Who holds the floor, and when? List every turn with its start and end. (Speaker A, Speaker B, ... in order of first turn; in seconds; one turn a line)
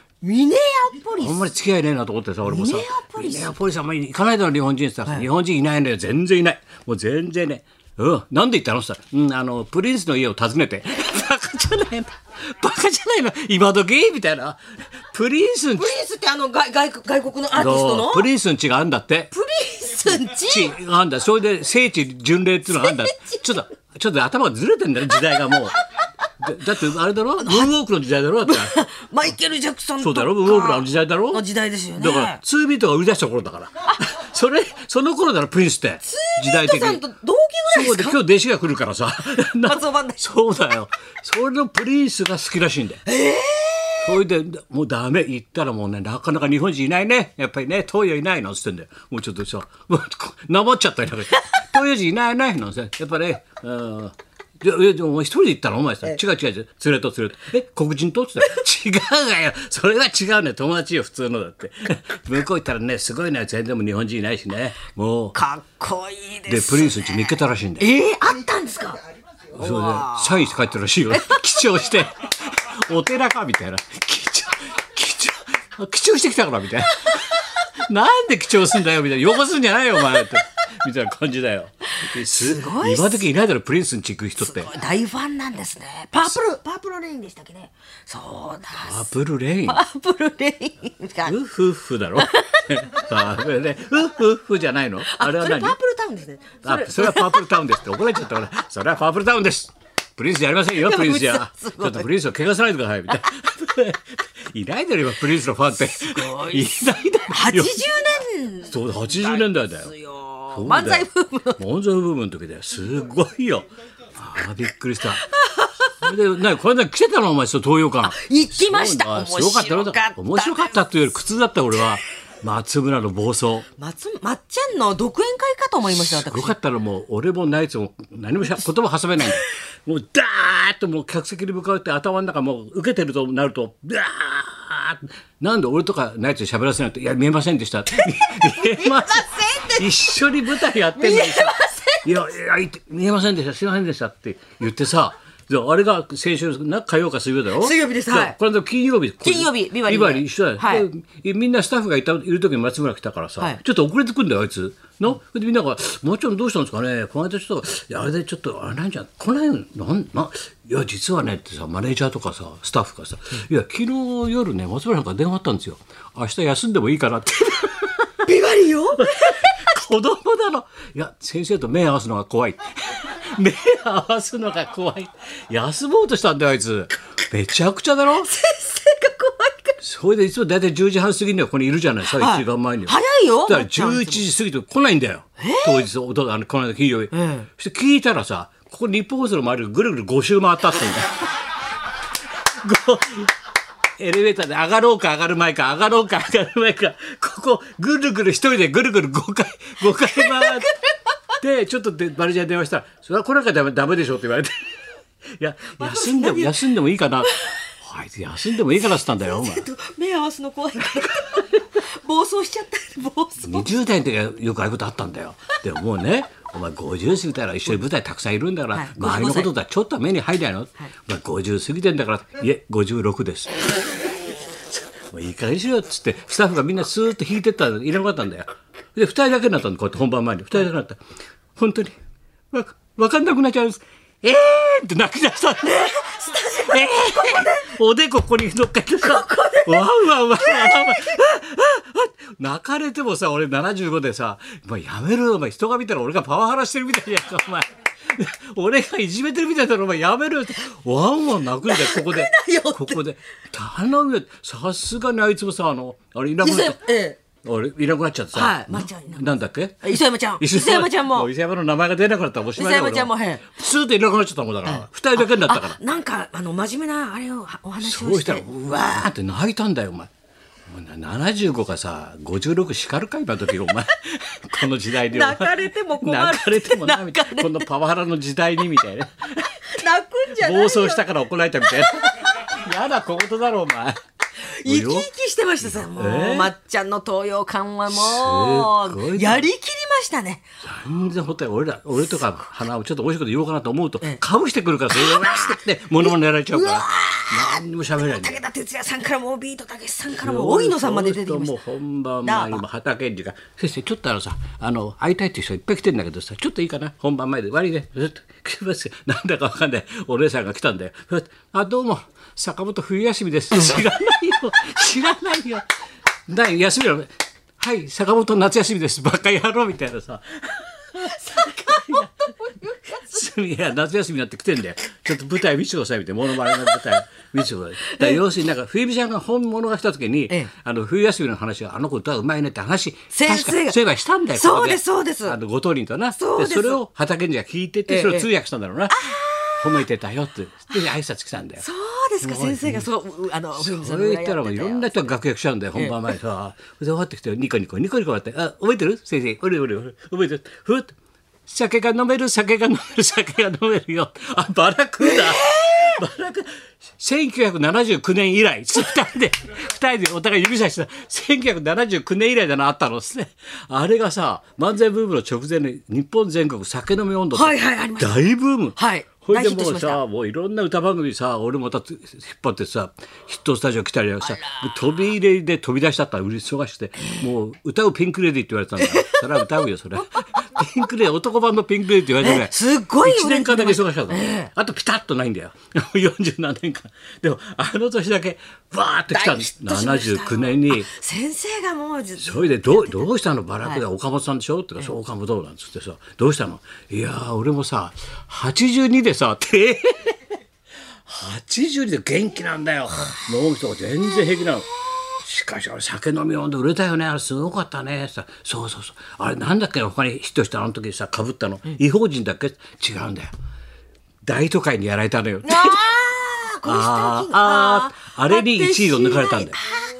Speaker A: 0.2-1.5
Speaker B: 1.2-15.9
Speaker A: 2.5-3.5
Speaker A: 15.8-18.3
Speaker B: 17.5-19.3
Speaker A: 19.3-20.7
Speaker B: 20.4-25.8
Speaker A: 22.7-23.6
Speaker B: 26.4-28.8
Speaker A: 27.4-27.7
Speaker A: 28.4-32.4
Speaker B: 30.0-31.4
Speaker B: 31.9-37.0
Speaker A: 36.0-38.2
Speaker B: 37.7-43.1
Speaker A: 39.6-40.2
Speaker A: 43.1-44.2
Speaker B: 44.0-65.4
Speaker A: 65.3-69.0
Speaker B: 66.5-67.9
Speaker B: 69.5-84.7
Speaker A: 69.6-70.5
Speaker A: 71.1-71.5
Speaker A: 82.0-83.3
Speaker A: 84.4-89.1
Speaker B: 88.8-89.8
Speaker A: 89.7-91.4
Speaker B: 91.2-95.8
Speaker A: 92.2-92.9
Speaker A: 95.0-97.5
Speaker B: 96.6-107.8
Speaker A: 100.7-102.1
Speaker A: 105.7-111.6
Speaker B: 108.6-109.9
Speaker B: 110.5-115.3
Speaker A: 115.2-115.9
Speaker B: 116.0-123.7
Speaker A: 118.0-120.8
Speaker A: 123.8-126.5
Speaker B: 125.9-168.1
Speaker A: 138.0-142.1
Speaker A: 147.6-148.3
Speaker A: 149.2-150.9
Speaker A: 168.2-169.5
Speaker B: 168.9-178.3
Speaker A: 178.3-179.8
Speaker B: 179.8-191.2
Speaker A: 182.1-184.2
Speaker A: 185.4-185.8
Speaker A: 187.1-187.5
Speaker B: 192.5-193.3
Speaker B: 194.0-200.7
Speaker A: 200.0-200.9
Speaker B: 201.4-204.7
Speaker B: 205.4-209.7
Speaker A: 205.8-206.7
Speaker A: 207.2-207.6
Speaker A: 208.8-213.7
Speaker B: 213.4-223.7
Speaker A: 218.7-219.5
Speaker B: 224.7-231.0
Speaker B: 231.5-231.9
Speaker B: 232.5-256.8
Speaker A: 235.6-237.7
Speaker A: 239.0-241.2
Speaker A: 251.6-253.0
Speaker A: 256.4-257.2
Speaker B: 257.4-265.8
Speaker A: 258.3-261.3
Speaker A: 262.6-263.5
Speaker A: 264.6-269.0
Speaker B: 267.8-270.1
Speaker B: 270.7-279.6
Speaker A: 274.9-277.6
Speaker A: 279.6-281.0
Speaker B: 280.3-284.0
Speaker A: 281.8-282.1
Speaker A: 284.4-290.4
Speaker B: 284.6-285.1
Speaker B: 285.6-286.5
Speaker B: 287.9-289.5
Speaker B: 290.6-298.4
Speaker A: 294.9-301.6
Speaker B: 300.2-315.6
Speaker A: 302.2-302.6
Speaker B: 316.3-339.1
Speaker A: 320.9-323.1
Speaker A: 326.6-326.9
Speaker A: 327.8-328.2
Speaker A: 333.1-333.8
Speaker A: 334.3-335.4
Speaker A: 336.1-336.8
Speaker A: 337.9-338.3
Speaker A: 338.9-339.9
Speaker B: 339.6-341.6
Speaker A: 341.6-345.2
Speaker B: 342.2-342.9
Speaker B: 343.6-350.9
Speaker A: 345.8-346.1
Speaker B: 351.4-390.9
Speaker A: 355.0-356.0
Speaker A: 367.3-368.2
Speaker A: 368.8-370.0
Speaker A: 374.3-374.8
Speaker A: 377.0-377.2
Speaker A: 378.8-379.6
Speaker A: 382.2-384.5
Speaker A: 389.1-393.1
Speaker B: 392.2-400.2
Speaker B: 401.1-413.3
Speaker B: 414.2-415.9
Speaker A: 415.4-419.9
Speaker B: 416.6-419.6